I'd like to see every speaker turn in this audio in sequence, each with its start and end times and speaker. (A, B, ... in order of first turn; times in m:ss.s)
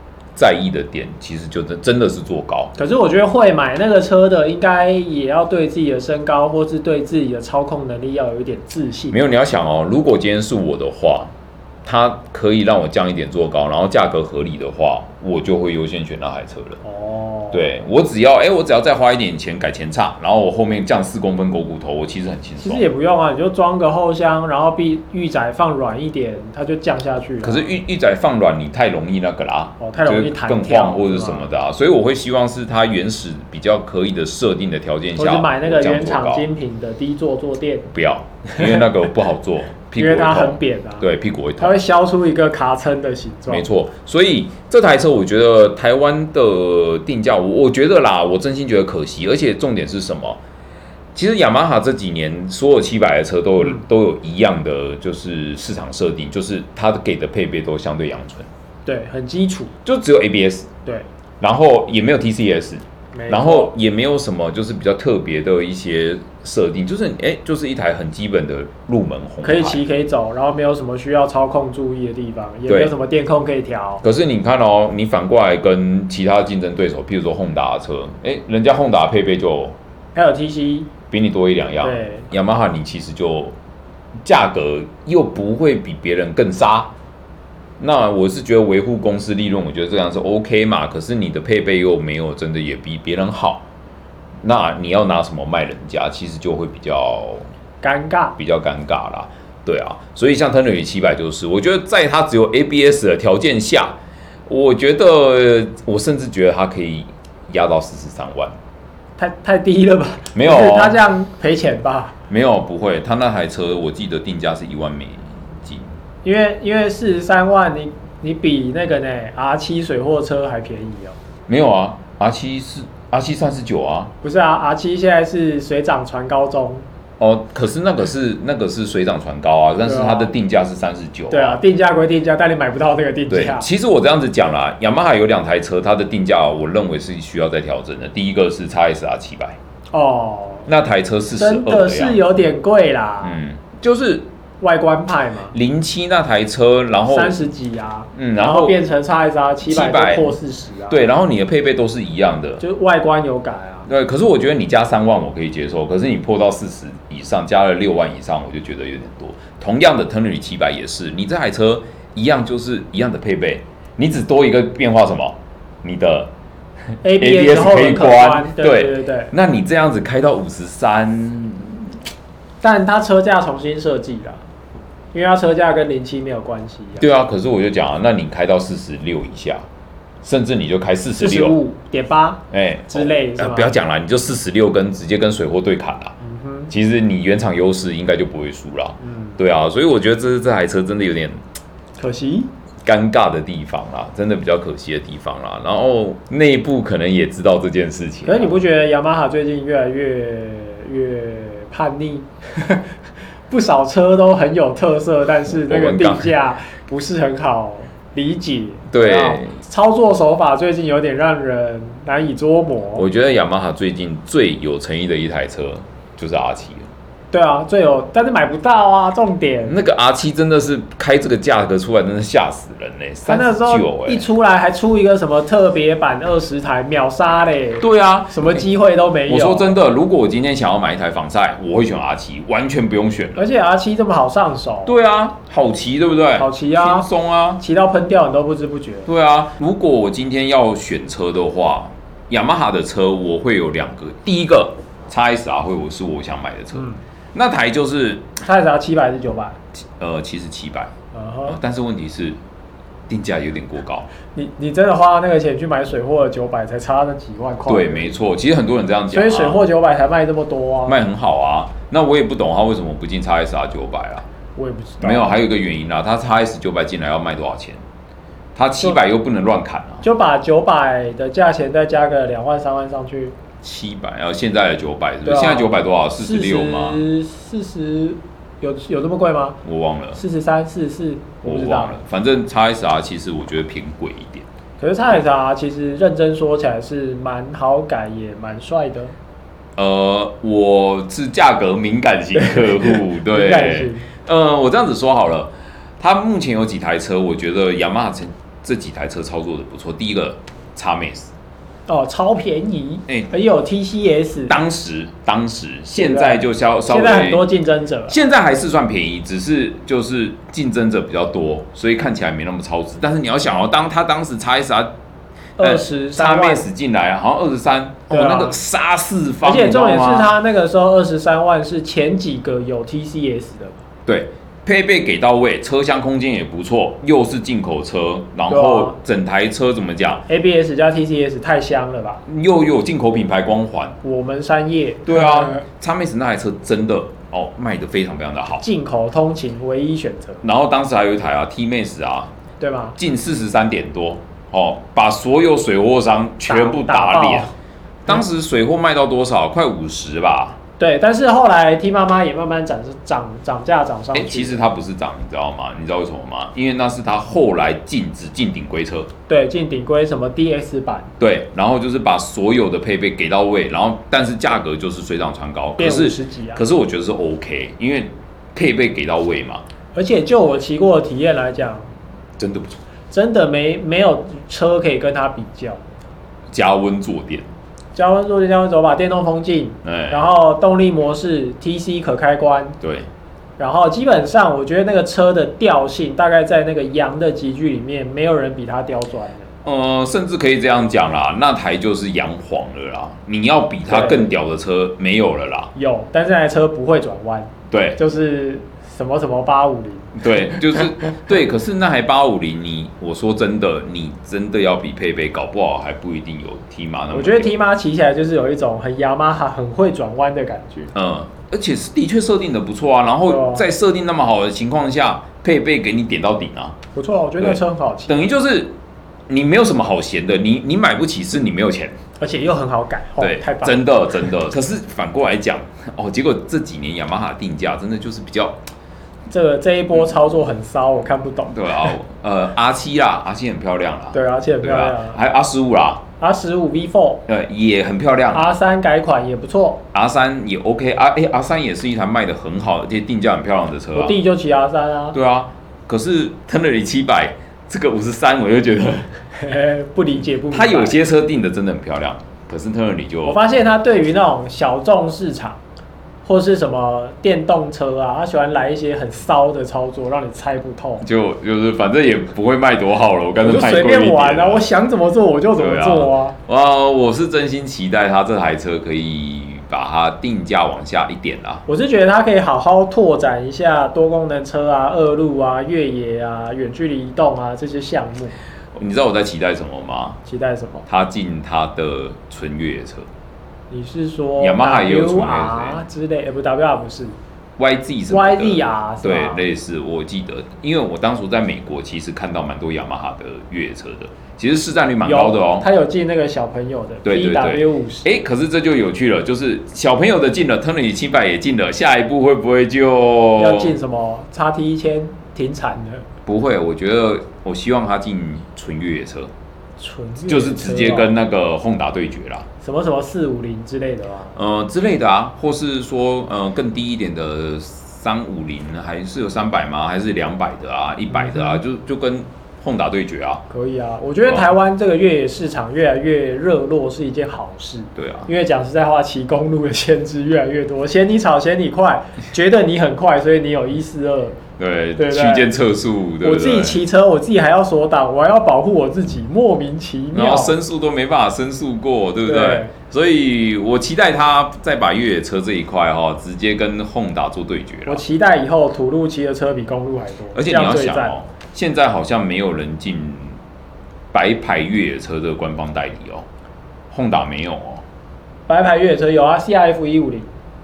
0:00.4-0:02.7 A
0:02.8-0:09.2 B
0:09.1-0:11.3 A
0:11.8-0:16.8 A
0:16.8-0:17.8 B
0:17.5-0:22.9 A
0:22.6-0:27.8 B
0:27.4-0:36.5 A
0:29.8-0:31.5 B
0:35.2-0:37.9 B
0:37.9-0:41.8 A
0:40.0-0:41.1 B
0:41.6-0:43.6 B
0:43.5-0:50.4 A
0:51.2-0:58.5 A
0:58.9-0:59.7 B
0:59.8-1:00.7 A
1:01.4-1:09.8 A
1:03.1-1:03.7 B
1:09.4-1:14.0 B
1:12.7-1:12.9 A
1:14.0-1:19.8 A
1:20.2-1:20.9 B
1:21.1-1:23.6 A
1:21.8-1:22.3 B
1:24.2-1:26.9 A
1:27.8-1:33.6 A
1:34.4-1:37.5 A
1:37.8-1:38.4 B
1:38.4-1:48.6 A
1:49.2-1:52.2 B
1:50.3-1:51.0 A
1:52.3-1:55.9 A
1:56.2-2:01.2 B
2:01.5-2:04.1 A
2:04.2-2:06.8 B
2:07.2-2:11.6 A
2:09.8-2:10.3 B
2:11.3-2:13.7 B
2:13.3-2:19.6 A
2:19.9-2:20.7 B
2:20.7-2:22.2 A
2:21.4-2:23.4 B
2:23.2-2:24.3 A
2:24.6-2:25.5 B
2:25.5-2:27.4 A
2:27.1-2:31.0 B
2:28.2-2:28.8 A
2:29.6-2:30.4 A
2:30.9-2:32.6 A
2:32.6-2:33.9 B
2:33.9-2:46.3 A
2:47.0-2:49.3 B
2:47.2-2:52.0 A
2:52.6-2:54.4 B
2:55.1-2:57.1 B
2:57.0-2:59.6 A
3:00.2-3:01.6 A
3:01.2-3:03.8 B
3:02.5-3:06.2 A
3:06.2-3:06.7 B
3:06.7-3:11.4 A
3:09.0-3:09.4 B
3:12.0-3:12.5 B
3:12.8-3:18.6 A
3:18.2-3:22.9 B
3:23.5-3:33.1 B
3:25.5-3:26.4 A
3:28.9-3:29.6 A
3:33.0-3:36.9 A
3:37.3-3:39.8 B
3:39.7-3:44.3 A
3:43.3-3:49.7 B
3:47.8-3:48.6 A
3:49.3-3:53.5 A
3:53.4-3:54.9 B
3:54.9-3:57.6 A
3:56.4-3:57.1 B
3:57.6-3:59.1 B
3:59.1-4:08.4 A
4:06.7-4:07.0 B
4:08.4-4:09.6 B
4:10.0-4:10.9 A
4:11.1-4:11.6 B
4:11.5-4:12.4 A
4:13.1-4:14.1 A
4:14.4-4:18.1 B
4:17.7-4:19.7 A
4:19.1-4:21.0 B
4:20.9-4:24.3 A
4:24.6-4:25.4 B
4:25.0-4:27.8 A
4:28.6-4:30.0 A
4:30.0-4:33.4 B
4:33.6-4:37.0 A
4:35.2-4:39.6 B
4:39.6-4:40.2 A
4:40.2-4:42.0 B
4:41.4-4:44.5 A
4:44.8-4:49.1 B
4:49.8-5:01.3 A
4:52.4-4:54.1 B
5:01.9-5:04.6 B
5:04.5-5:07.4 A
5:06.0-5:08.2 B
5:08.1-5:14.9 A
5:15.6-5:16.6 B
5:15.6-5:20.4 A
5:18.1-5:18.6 B
5:19.4-5:23.8 B
5:24.1-5:30.2 A
5:28.5-5:29.0 B
5:30.3-5:32.2 B
5:32.3-5:34.0 A
5:34.0-5:35.6 B
5:35.1-5:38.6 A
5:38.6-5:40.4 B
5:40.4-5:42.3 A
5:42.6-5:43.0 B
5:43.0-5:47.5 A
5:46.5-5:47.5 B
5:48.0-5:50.6 A
5:50.8-5:54.6 B
5:54.1-5:59.1 A
5:59.3-6:01.1 B
6:01.2-6:09.6 A
6:05.8-6:06.6 B
6:10.0-6:11.9 B
6:12.4-6:12.8 A
6:13.1-6:16.0 B
6:16.5-6:17.5 A
6:18.0-6:22.8 B
6:19.8-6:20.2 A
6:22.8-6:23.1 A
6:23.6-6:29.5 B
6:29.6-6:35.7 A
6:33.9-6:34.3 B
6:35.8-6:40.2 B
6:37.7-6:38.0 A
6:40.2-6:47.6 A
6:47.1-6:50.9 B
6:51.0-6:56.8 A
6:53.3-6:53.6 B
6:57.0-6:58.3 B
6:57.4-6:58.7 A
6:59.3-7:02.0 A
7:02.2-7:03.8 B
7:03.2-7:08.6 A
7:09.3-7:11.6 B
7:11.5-7:16.0 A
7:14.1-7:15.2 B
7:16.2-7:17.2 B
7:17.3-7:18.6 A
7:18.3-7:19.8 B
7:19.9-7:24.2 A
7:24.0-7:25.2 B
7:25.1-7:29.1 A
7:29.4-7:31.0 B
7:30.5-7:33.4 A
7:33.2-7:35.6 B
7:36.2-7:41.1 B
7:41.0-7:44.7 A
7:43.4-7:46.4 B
7:45.6-7:51.6 A
7:51.7-7:58.4 B
7:58.7-8:00.2 A
8:00.3-8:00.9 B
8:00.9-8:03.1 A
8:03.7-8:07.2 B
8:04.4-8:05.8 A
8:07.6-8:15.7 A
8:08.1-8:09.4 B
8:15.0-8:18.1 B
8:17.0-8:23.8 A
8:23.4-8:26.1 B
8:26.3-8:29.3 A
8:29.8-8:31.2 B
8:30.3-8:32.5 A
8:32.6-8:34.4 B
8:34.4-8:43.4 A
8:41.1-8:41.6 B
8:43.5-8:54.4 B
8:44.3-8:44.5 A
8:48.0-8:48.3 A
8:54.6-8:56.8 A
8:55.0-8:55.5 B
8:56.2-9:00.6 B
9:00.1-9:08.0 A
9:02.3-9:02.7 B
9:07.9-9:11.1 B
9:10.3-9:13.4 A
9:14.1-9:16.2 A
9:16.9-9:17.8 A
9:18.5-9:20.3 B